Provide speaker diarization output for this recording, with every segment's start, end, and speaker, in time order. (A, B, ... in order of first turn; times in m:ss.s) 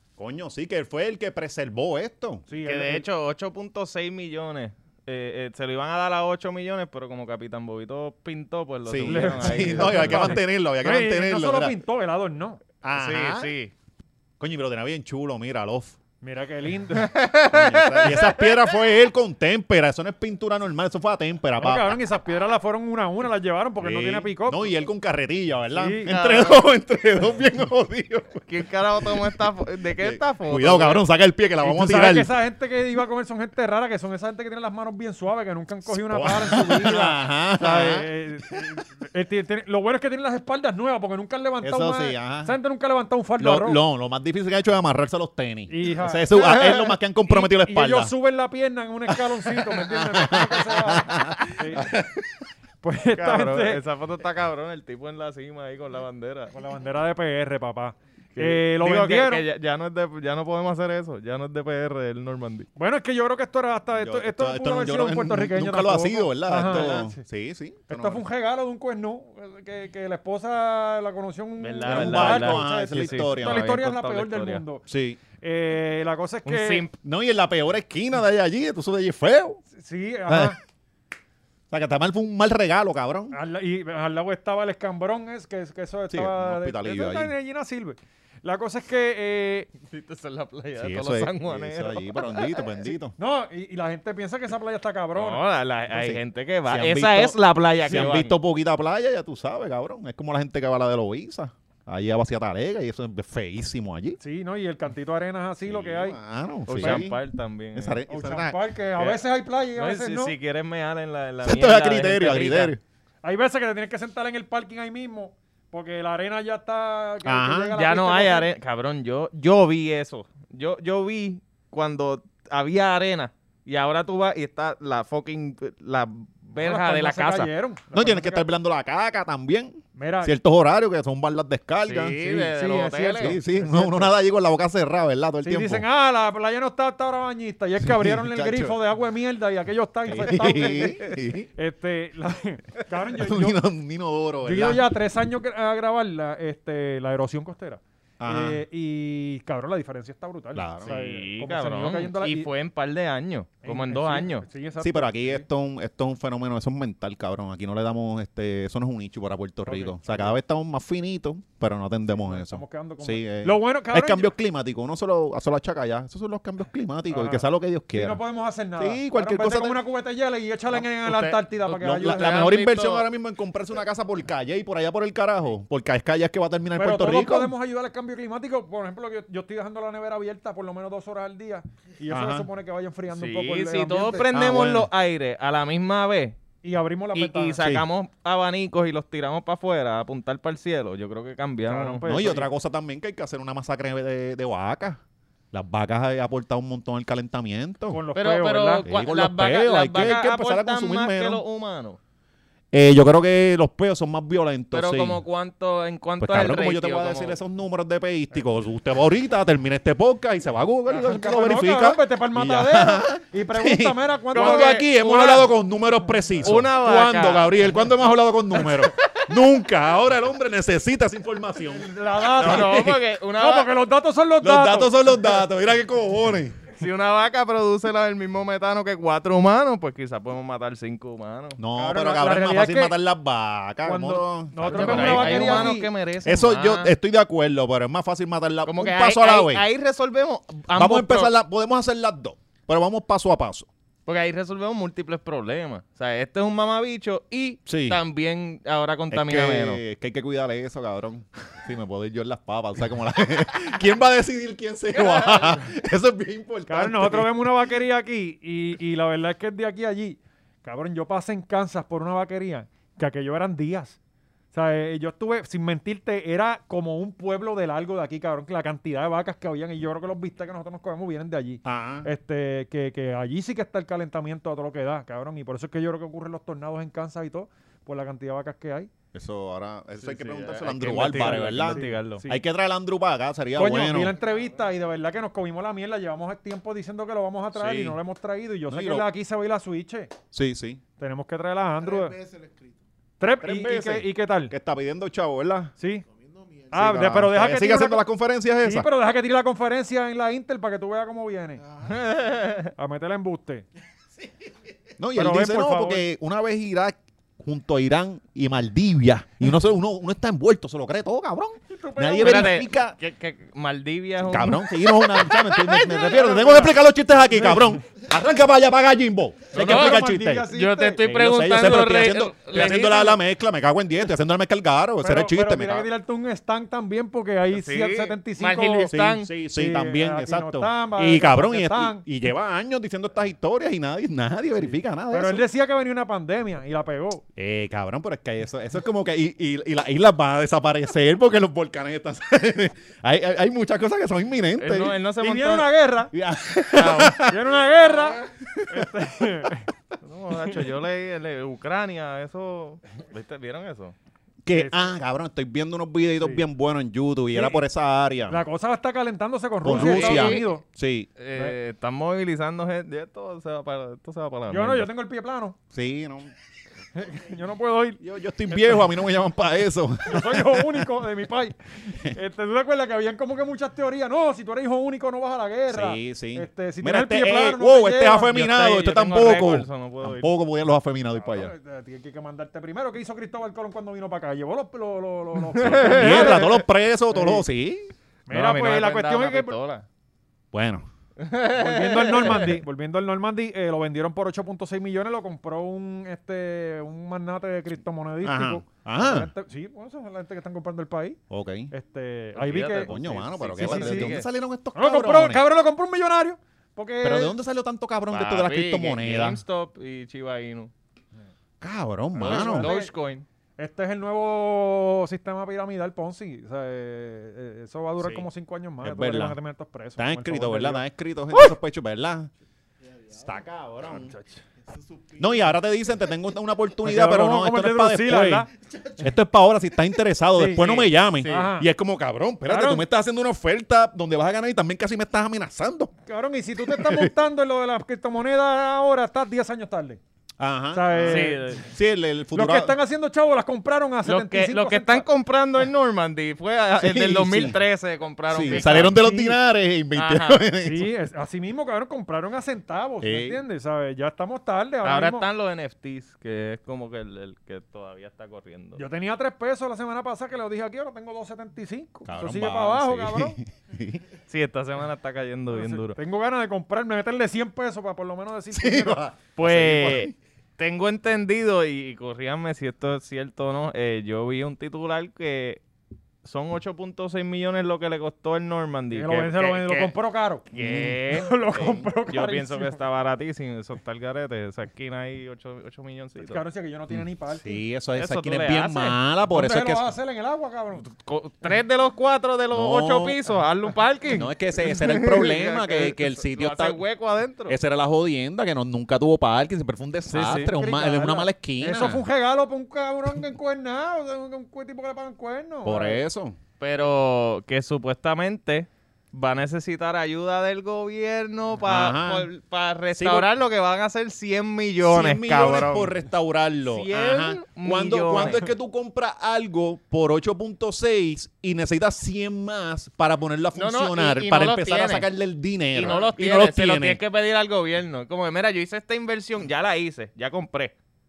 0:00.2-0:02.4 A
0:02.5-0:03.1 B
0:02.6-0:10.4 C
0:08.9-0:11.8 A
0:09.1-0:12.6 B
0:12.8-0:13.5 A
0:13.0-0:13.7 C
0:14.4-0:16.0 A
0:16.2-0:17.1 B
0:17.0-0:18.7 C
0:17.5-0:22.0 A
0:21.6-0:24.6 B
0:23.8-0:28.4 A
0:25.8-0:26.1 B
0:26.1-0:26.6 C
0:28.5-0:31.0 C
0:30.0-0:32.3 A
0:31.6-0:43.8 B
0:35.9-0:38.1 A
0:41.6-0:42.6 A
0:43.4-0:48.1 A
0:45.7-0:51.9 B
0:49.1-0:52.4 A
0:52.8-0:53.8 B
0:53.2-0:56.5 C
0:56.5-0:59.4 B
0:58.4-1:02.7 C
1:02.8-1:07.2 B
1:04.0-1:08.2 A
1:07.9-1:14.9 B
1:11.6-1:14.6 C
1:11.8-1:13.6 A
1:14.9-1:15.2 A
1:15.4-1:16.9 B
1:16.5-1:16.9 C
1:17.0-1:19.6 A
1:19.7-1:20.6 B
1:20.3-1:20.6 A
1:21.7-1:23.4 A
1:23.3-1:29.7 B
1:26.1-1:27.3 A
1:29.9-1:32.7 C
1:30.8-1:33.2 A
1:33.2-1:35.4 B
1:35.2-1:38.4 C
1:35.9-1:44.2 A
1:37.9-1:38.2 B
1:44.2-1:46.2 B
1:45.6-1:47.2 A
1:46.7-1:48.0 C
1:46.8-1:47.1 B
1:47.8-1:48.6 A
1:48.1-1:50.4 B
1:49.0-1:49.2 C
1:49.8-1:52.7 C
1:51.4-1:52.8 A
1:53.2-1:58.5 B
1:57.2-1:57.8 A
1:57.8-2:07.5 C
2:06.6-2:08.5 B
2:07.9-2:12.5 A
2:10.0-2:10.3 B
2:11.9-2:13.4 C
2:12.2-2:14.1 B
2:13.2-2:15.8 A
2:15.4-2:21.0 B
2:17.8-2:18.8 A
2:20.1-2:21.5 A
2:20.4-2:21.2 C
2:21.6-2:23.6 B
2:23.2-2:24.9 A
2:24.4-2:32.5 B
2:28.2-2:28.6 A
2:30.6-2:31.0 A
2:30.8-2:34.5 C
2:33.6-2:35.4 B
2:34.8-2:48.2 A
2:39.6-2:40.4 B
2:42.1-2:44.3 B
2:47.1-2:52.6 B
2:48.8-2:49.8 A
2:51.0-2:53.1 C
2:51.7-2:57.5 A
2:56.7-3:04.3 B
3:02.1-3:02.5 A
3:03.1-3:06.4 C
3:04.3-3:04.9 A
3:06.6-3:07.6 B
3:07.2-3:12.1 C
3:07.6-3:07.9 A
3:11.7-3:12.5 B
3:12.1-3:15.0 A
3:15.5-3:18.0 A
3:17.9-3:18.9 B
3:18.2-3:22.0 C
3:18.9-3:21.4 A
3:22.7-3:25.2 A
3:24.7-3:27.4 C
3:26.2-3:43.0 A
3:30.9-3:34.8 B
3:34.3-3:35.5 C
3:36.4-3:37.5 C
3:38.6-3:39.2 C
3:41.7-3:42.8 B
3:42.4-3:43.7 C
3:43.4-3:45.2 B
3:44.4-3:46.6 A
3:46.8-3:51.6 C
3:51.6-3:59.6 A
3:51.8-3:53.0 B
3:53.8-3:55.9 B
3:54.6-3:56.9 C
3:58.7-4:01.3 C
4:00.8-4:03.7 A
4:04.1-4:09.8 C
4:07.7-4:08.0 A
4:09.1-4:17.5 A
4:14.9-4:15.6 C
4:16.7-4:24.0 B
4:24.5-4:38.9 B
4:31.6-4:32.1 A
4:39.1-4:44.2 A
4:40.0-4:42.2 C
4:40.9-4:42.4 B
4:43.6-4:50.1 B
4:44.1-4:44.9 D
4:47.5-4:48.0 A
4:48.7-4:49.1 A
4:50.3-4:50.8 A
4:51.0-4:52.2 B
4:51.8-4:52.8 D
4:53.2-4:54.5 B
4:53.4-4:55.7 A
4:55.8-4:56.0 B
4:56.1-4:57.0 D
4:56.7-4:58.0 B
4:56.7-4:58.9 A
4:58.6-5:01.6 B
5:01.6-5:02.4 D
5:01.8-5:02.7 C
5:02.8-5:03.7 B
5:05.0-5:13.0 A
5:05.2-5:06.1 B
5:11.7-5:12.6 B
5:12.2-5:15.8 C
5:14.2-5:20.5 A
5:15.8-5:17.8 B
5:19.5-5:21.0 B
5:19.6-5:23.2 C
5:21.0-5:25.9 A
5:25.0-5:28.9 B
5:27.5-5:29.3 C
5:28.9-5:35.4 A
5:29.5-5:32.0 B
5:35.1-5:37.2 B
5:37.4-5:45.0 A
5:44.6-5:45.7 C
5:45.2-5:46.1 B
5:46.1-5:47.4 A
5:46.7-5:47.2 C
5:47.2-5:49.7 B
5:48.4-5:48.9 A
5:50.0-5:54.0 C
5:54.4-5:58.4 A
5:57.3-5:57.6 B
5:58.3-6:00.6 B
5:59.6-6:01.1 A
5:59.7-6:00.5 C
6:01.2-6:04.9 C
6:04.5-6:05.6 B
6:05.7-6:06.3 A
6:07.0-6:08.0 B
6:08.0-6:10.9 A
6:10.1-6:18.4 B
6:15.7-6:21.5 A
6:18.4-6:20.3 C
6:21.2-6:27.4 B
6:25.6-6:26.6 C
6:25.6-6:27.9 A
6:28.3-6:29.6 B
6:28.3-6:29.9 C
6:30.5-6:30.9 A
6:31.2-6:32.6 C
6:31.4-6:41.2 B
6:38.2-6:39.3 A
6:41.3-6:41.7 A
6:41.7-6:42.9 B
6:42.4-6:44.3 C
6:42.8-6:45.4 A
6:43.6-6:44.1 B
6:44.8-6:47.4 B
6:47.0-6:49.4 A
6:48.1-6:50.7 C
6:51.6-6:52.7 A
6:52.2-6:52.9 B
6:52.2-6:53.2 C
6:53.6-7:01.5 B
6:58.8-6:59.4 A
7:00.0-7:02.3 A
7:02.8-7:03.5 D
7:03.1-7:04.1 A
7:04.0-7:04.4 B
7:04.6-7:06.2 D
7:05.2-7:08.5 A
7:06.8-7:08.5 B
7:08.6-7:09.1 D
7:09.0-7:15.9 A
7:10.4-7:11.7 B
7:10.6-7:11.5 C
7:12.5-7:12.8 B
7:16.1-7:20.0 B
7:16.6-7:17.1 A
7:20.4-7:22.8 A
7:20.7-7:21.6 B
7:21.0-7:21.6 C
7:22.3-7:25.1 B
7:24.0-7:29.1 C
7:26.8-7:27.6 A
7:28.3-7:30.9 A
7:28.5-7:29.4 B
7:30.0-7:30.4 C
7:30.6-7:35.3 B
7:33.0-7:33.4 A
7:34.8-7:38.8 C
7:38.8-7:43.4 B
7:42.1-7:44.0 A
7:44.3-7:46.0 C
7:45.5-7:49.0 B
7:48.5-7:50.2 A
7:49.4-7:55.6 C
7:56.2-7:59.9 C
7:58.9-8:00.4 B
8:00.5-8:01.4 C
8:00.6-8:01.0 A
8:01.1-8:02.8 B
8:02.0-8:06.4 C
8:06.2-8:07.5 B
8:06.9-8:09.9 A
8:08.0-8:09.0 C
8:09.3-8:10.9 B
8:10.8-8:17.6 C
8:12.5-8:13.2 A
8:14.1-8:16.8 A
8:17.5-8:22.0 A
8:20.1-8:20.5 C
8:20.2-8:26.0 B
8:25.6-8:26.4 A
8:26.6-8:35.9 C
8:31.6-8:32.3 A
8:33.0-8:33.3 A
8:34.8-8:47.0 A
8:36.7-8:38.5 C
8:43.6-8:45.1 C
8:45.7-8:50.7 C